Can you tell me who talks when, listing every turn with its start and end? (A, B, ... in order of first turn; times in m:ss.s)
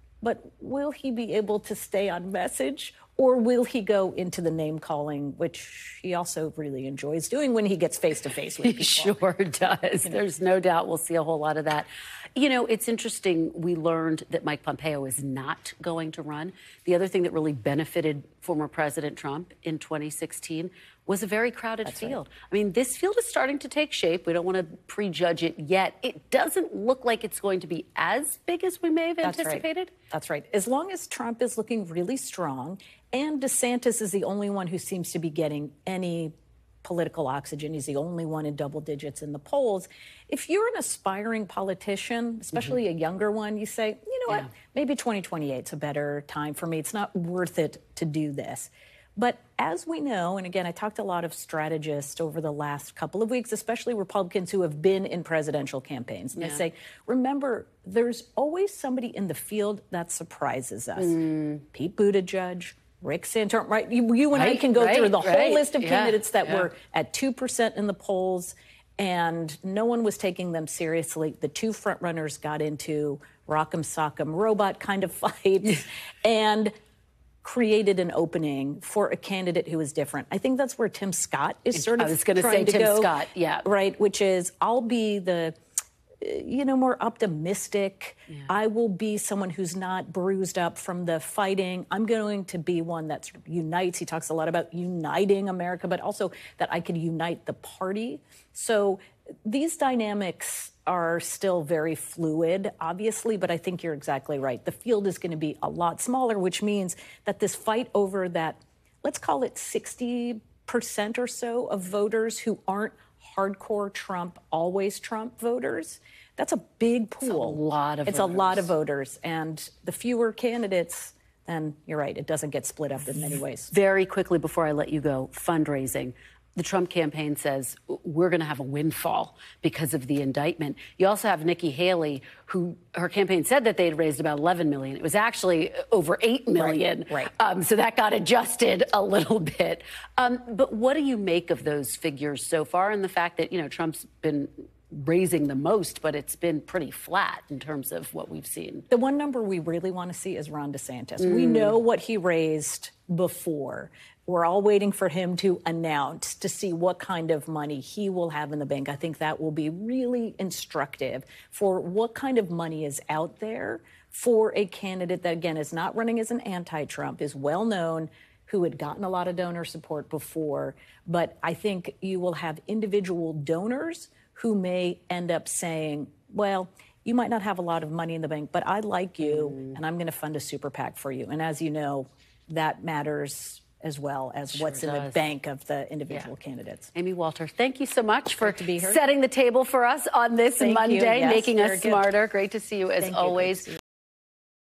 0:00.2-0:09.2 A
0:08.6-0:29.9 B
0:21.8-0:22.2 A
0:29.2-1:16.7 A
1:01.0-1:01.6 B
1:04.3-1:06.7 B
1:17.4-1:25.6 A
1:21.7-1:23.7 B
1:26.2-2:03.7 A
1:57.2-1:58.7 B
2:03.7-2:28.9 B
2:16.6-2:17.3 A
2:28.9-3:06.9 A
2:31.3-2:31.7 B
2:59.2-2:59.7 B
3:04.5-3:05.3 B
3:07.0-3:13.7 B
3:08.4-3:09.0 A
3:10.6-3:12.1 A
3:13.0-3:13.8 A